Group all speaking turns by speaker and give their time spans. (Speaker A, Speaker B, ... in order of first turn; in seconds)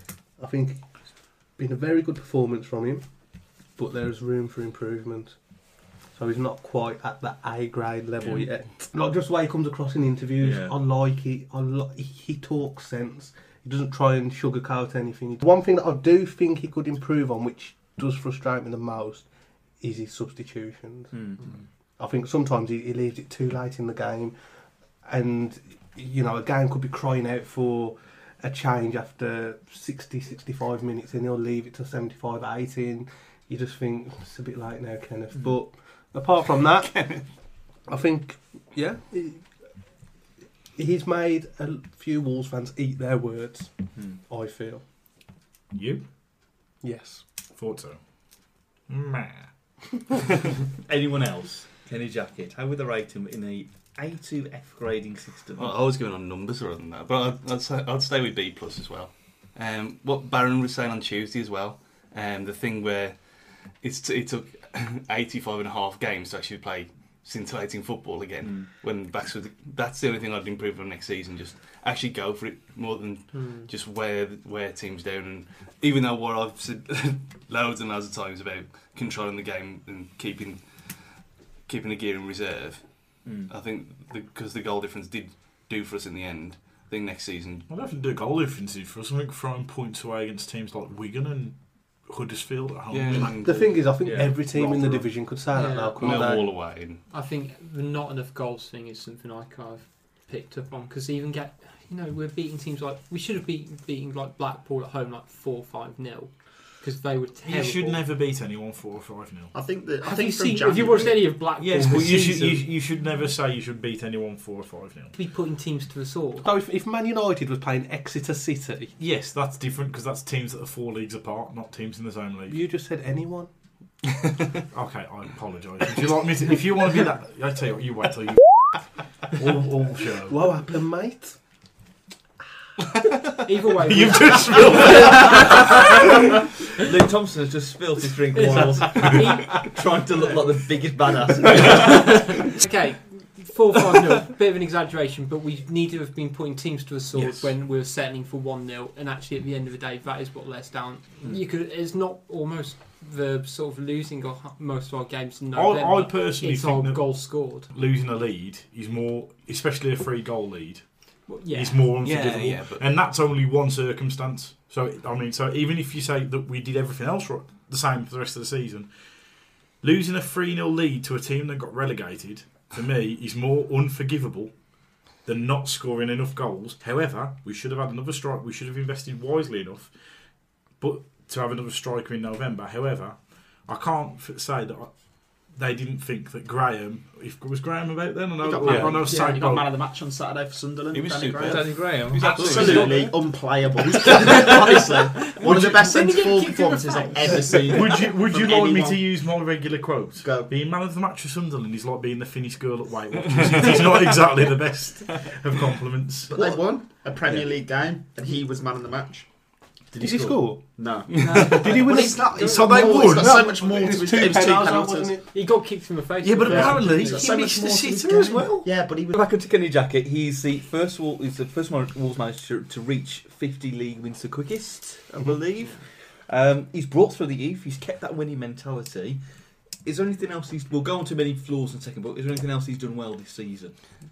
Speaker A: 0.4-3.1, 3.7-5.4, 6.1-19.3, 19.8-21.3, 22.0-24.4, 25.0-37.3, 37.9-39.5, 40.7-44.8, 46.8-47.3, 93.3-96.5, 116.4-118.9, 122.5-123.5, 130.3-131.4, 192.4-193.1, 210.0-215.3
Speaker B: 8.2-8.5, 10.4-10.8, 21.1-21.6, 50.8-55.7, 68.4-68.7, 83.2-83.5, 94.0-94.4, 136.8-142.4, 188.6-189.0, 191.4-191.7, 192.2-192.9, 219.2-229.2, 229.8-233.8
Speaker C: 45.7-46.1, 47.5-49.5, 87.7-93.5, 107.4-109.5, 111.5-115.2, 119.0-122.6, 124.7-130.4, 133.2-135.9, 139.0-139.3, 155.5-174.6, 175.2-179.9, 180.7-189.7, 197.6-206.3, 209.9-210.6, 211.5-214.4, 216.2-218.7
Speaker D: 55.5-87.7, 92.9-94.2, 96.0-97.0, 147.2-147.5, 162.0-162.9, 190.9-193.1
Speaker E: 73.3-73.7, 95.5-108.0, 110.0-112.7, 115.1-116.5, 133.4-136.0, 138.3-140.4, 141.6-157.7, 161.3-161.9, 189.1-189.4, 192.2-192.8, 194.2-197.9, 215.3-217.3
Speaker F: 94.1-95.2, 109.5-111.5, 188.4-199.2, 200.2-200.5, 206.3-209.3, 210.8-215.2, 216.5-219.2